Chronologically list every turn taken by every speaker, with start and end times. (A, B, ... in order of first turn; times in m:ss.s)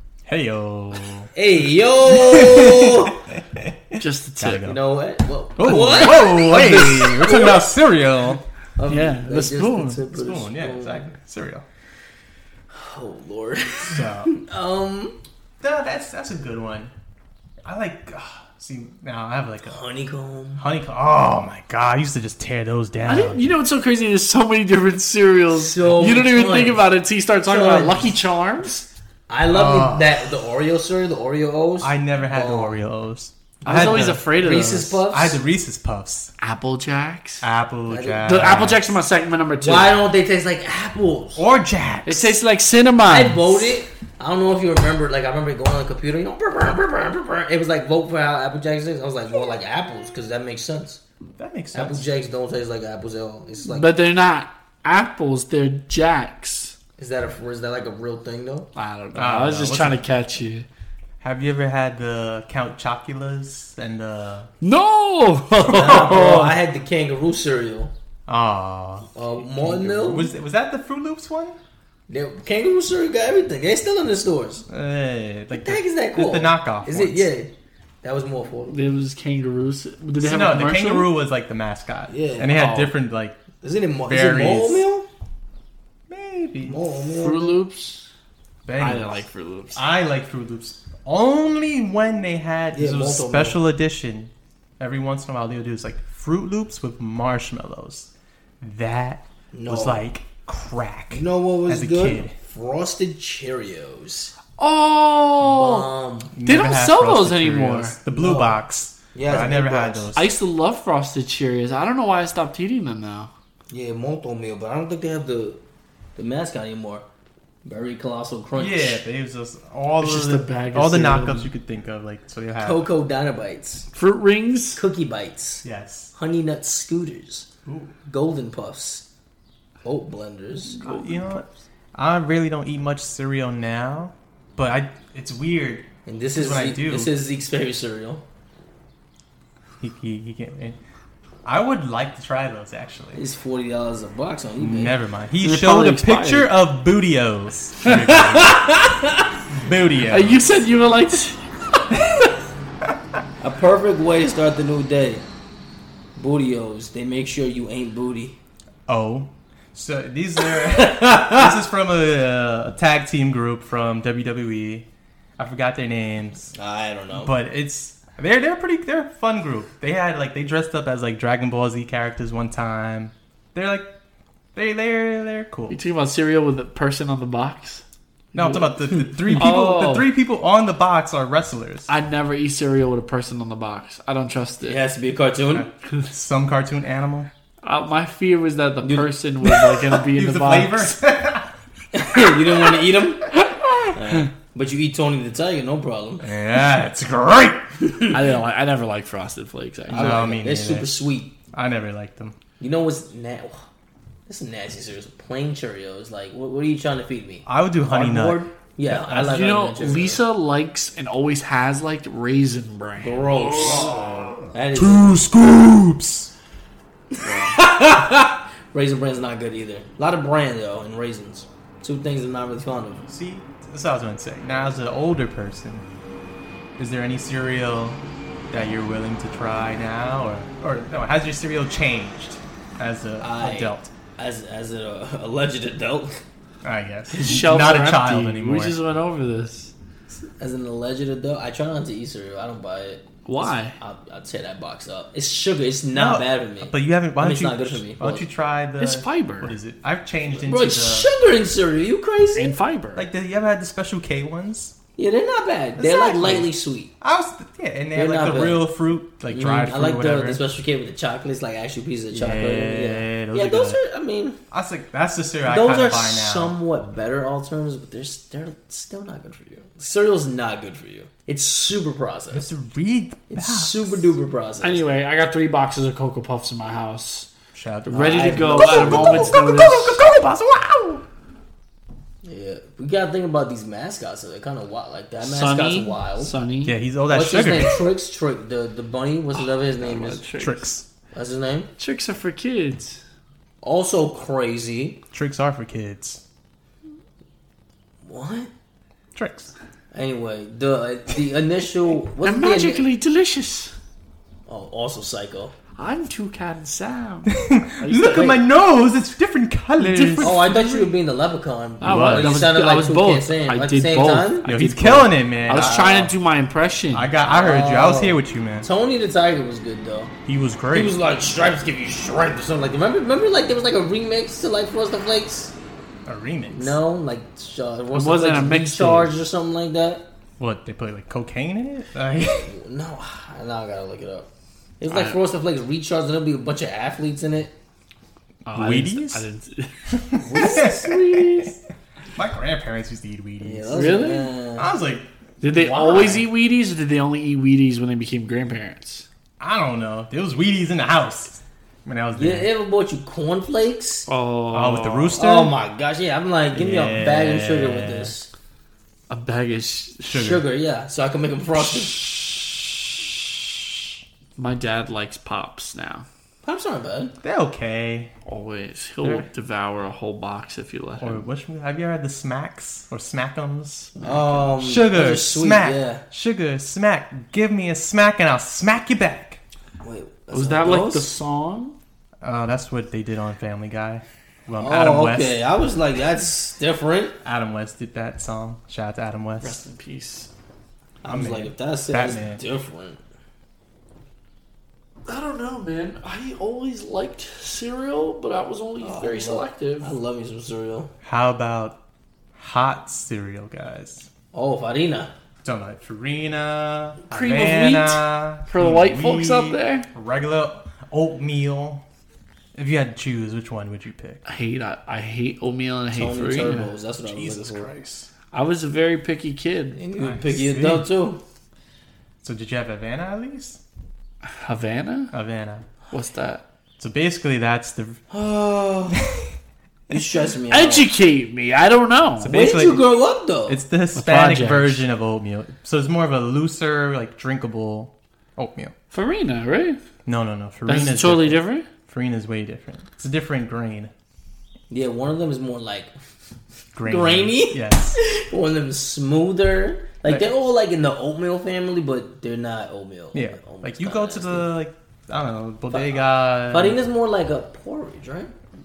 0:00.3-0:01.3 A
0:01.3-0:03.2 B
0:02.0-0:04.8 A
0:04.0-0:04.7 C
0:04.6-0:07.7 B
0:05.6-0:08.4 A
0:08.8-0:11.1 B
0:08.9-0:10.0 C
0:10.0-0:11.6 A
0:12.7-0:15.2 B
0:13.9-0:14.4 A
0:15.6-0:16.9 A
0:17.6-0:19.8 A
0:19.6-0:20.6 B
0:20.6-0:23.4 A
0:23.0-0:28.9 C
0:25.5-0:26.8 B
0:27.4-0:28.1 B
0:29.3-0:32.8 B
0:29.5-0:30.2 A
0:31.8-0:34.3 A
0:33.6-0:35.4 B
0:33.6-0:35.0 C
0:35.1-0:36.3 A
0:36.4-0:37.4 C
0:37.4-0:39.0 A
0:37.9-0:38.6 B
0:38.2-0:40.0 C
0:39.6-0:41.4 B
0:41.4-0:42.4 A
0:42.0-0:43.7 C
0:43.0-0:51.0 B
0:51.4-0:52.0 A
0:51.7-0:53.9 B
0:53.7-0:56.8 C
0:57.0-0:58.7 B
0:58.7-1:00.6 C
0:59.1-1:00.0 A
1:01.2-1:04.5 A
1:04.6-1:06.6 C
1:05.7-1:07.9 B
1:08.3-1:11.6 A
1:09.1-1:10.3 B
1:12.1-1:14.6 B
1:14.7-1:17.3 A
1:15.5-1:18.8 B
1:18.7-1:21.1 C
1:20.2-1:23.4 A
1:22.1-1:22.8 B
1:22.6-1:22.9 C
1:23.6-1:25.1 B
1:24.1-1:24.8 A
1:26.1-1:26.8 A
1:26.6-1:27.6 B
1:27.2-1:28.1 C
1:28.6-1:29.2 A
1:28.8-1:29.8 C
1:29.7-1:38.1 A
1:32.7-1:33.6 B
1:38.6-1:42.3 A
1:39.5-1:40.0 B
1:41.1-1:44.3 B
1:44.6-1:45.9 C
1:45.4-1:46.3 B
1:46.3-1:50.3 A
1:46.4-1:48.0 C
1:48.1-1:48.6 B
1:49.1-1:50.1 B
1:50.1-1:53.3 C
1:53.7-1:55.6 B
1:56.2-1:57.0 B
1:57.6-1:59.0 B
1:58.6-2:02.8 A
2:00.0-2:01.5 C
2:02.6-2:03.9 B
2:03.9-2:04.8 C
2:04.7-2:07.5 B
2:05.6-2:06.1 A
2:07.6-2:07.9 A
2:08.0-2:09.0 B
2:09.8-2:10.8 B
2:10.7-2:11.4 C
2:10.8-2:17.1 A
2:16.0-2:18.2 B
2:19.8-2:20.8 A
2:21.4-2:23.2 A
2:23.1-2:25.0 B
2:24.6-2:28.8 A
2:25.4-2:26.5 C
2:28.1-2:28.4 C
2:28.8-2:29.1 B
2:29.5-2:30.4 A
2:30.1-2:32.2 C
2:33.4-2:35.2 B
2:36.2-2:38.4 B
2:38.9-2:44.9 A
2:40.5-2:41.6 B
2:45.4-2:46.5 A
2:46.5-2:47.3 B
2:47.1-2:53.9 A
2:54.5-2:55.8 A
2:55.7-2:57.8 C
2:58.3-3:01.9 A
2:58.3-3:00.1 C
3:01.9-3:04.8 C
3:04.6-3:05.7 B
3:05.5-3:07.3 A
3:07.6-3:10.9 C
3:09.9-3:11.5 A
3:11.9-3:13.3 B
3:13.9-3:16.2 B
3:16.2-3:17.7 A
3:17.8-3:18.2 B
3:18.1-3:20.2 C
3:19.9-3:21.4 B
3:19.9-3:20.9 A
3:21.5-3:22.4 A
3:22.6-3:23.6 B
3:24.3-3:30.2 B
3:27.4-3:29.4 A
3:29.1-3:33.2 C
3:33.0-3:34.0 B
3:34.5-3:35.2 B
3:34.7-3:36.3 A
3:37.1-3:43.0 B
3:37.2-3:37.6 C
3:43.1-3:45.8 A
3:46.8-3:53.9 A
3:53.2-3:56.2 B
3:56.6-3:58.8 A
3:57.1-3:59.7 C
4:00.4-4:08.2 B
4:03.2-4:03.8 C
4:05.9-4:11.1 A
4:08.8-4:09.6 C
4:10.4-4:12.5 B
4:12.3-4:13.1 C
4:12.9-4:14.8 A
4:15.0-4:16.9 B
4:15.8-4:20.4 A
4:17.9-4:18.7 B
4:19.3-4:24.4 B
4:22.1-4:23.8 A
4:24.5-4:26.5 A
4:25.4-4:32.5 B
4:32.3-4:34.1 A
4:33.3-4:34.8 B
4:34.6-4:37.3 C
4:37.5-4:41.0 A
4:37.8-4:40.0 C
4:37.9-4:39.5 B
4:42.2-4:46.3 B
4:45.2-4:46.8 C
4:46.6-4:47.8 A
4:47.1-4:50.2 B
4:49.6-4:50.7 C
4:50.4-4:50.8 A
4:51.1-4:51.7 B
4:51.8-4:53.0 C
4:53.6-4:55.0 B
4:55.1-4:56.2 A
4:58.0-4:58.5 B
4:59.1-4:59.5 A
4:59.9-5:02.8 B
5:02.2-5:03.7 C
5:04.5-5:05.5 B
5:05.8-5:08.4 C
5:07.3-5:10.4 A
5:09.8-5:10.9 C
5:10.2-5:14.5 B
5:11.8-5:17.1 C
5:11.8-5:12.4 A
5:14.4-5:16.1 A
5:15.5-5:16.1 B
5:16.9-5:18.7 A
5:17.2-5:20.1 B
5:20.2-5:21.0 A
5:20.7-5:25.5 B
5:26.0-5:26.8 A
5:26.5-5:30.0 B
5:27.9-5:29.2 C
5:30.4-5:32.5 A
5:32.2-5:34.3 B
5:34.8-5:37.5 B
5:34.9-5:35.2 C
5:38.4-5:39.7 C
5:38.5-5:39.2 A
5:39.9-5:41.5 A
5:40.2-5:41.5 B
5:42.1-5:44.0 A
5:43.4-5:44.7 B
5:43.7-5:44.3 C
5:44.6-5:46.2 A
5:45.4-5:49.1 C
5:49.4-5:52.5 A
5:52.2-5:54.1 B
5:54.1-5:55.2 C
5:54.5-5:55.5 A
5:55.2-5:58.3 B
5:56.5-5:58.1 A
5:59.1-6:00.1 C
6:00.1-6:00.4 A
6:00.1-6:02.3 B
6:04.4-6:06.1 C
6:06.4-6:07.1 B
6:07.2-6:08.1 A
6:08.2-6:11.2 C
6:11.0-6:19.4 A
6:14.0-6:14.2 C
6:14.0-6:16.0 B
6:19.8-6:21.2 B
6:20.3-6:21.8 C
6:22.2-6:25.4 A
6:24.6-6:27.2 B
6:27.2-6:29.6 A
6:29.4-6:30.3 C
6:31.0-6:33.0 B
6:31.0-6:32.4 A
6:35.0-6:39.9 C
6:38.8-6:40.9 B
6:41.0-6:41.8 A
6:42.3-6:44.1 A
6:44.3-6:45.1 B
6:45.4-6:51.8 A
6:47.1-6:49.9 C
6:52.5-6:54.2 A
6:54.2-6:56.7 C
6:55.9-6:57.7 B
6:57.0-6:58.1 A
6:58.3-6:59.8 C
6:59.7-7:01.2 B
7:00.0-7:00.9 A
7:02.2-7:03.6 A
7:04.2-7:05.1 C
7:05.1-7:05.7 A
7:05.9-7:06.4 C
7:06.8-7:08.0 A
7:08.1-7:09.0 B
7:09.9-7:10.9 B
7:10.5-7:12.4 C
7:12.2-7:12.8 A
7:12.2-7:13.6 B
7:13.5-7:18.7 A
7:13.9-7:14.8 C
7:18.9-7:19.8 C
7:20.0-7:23.9 A
7:20.6-7:21.7 C
7:24.7-7:26.0 B
7:26.7-7:28.0 A
7:26.8-7:34.5 B
7:33.1-7:36.8 A
7:35.7-7:38.3 B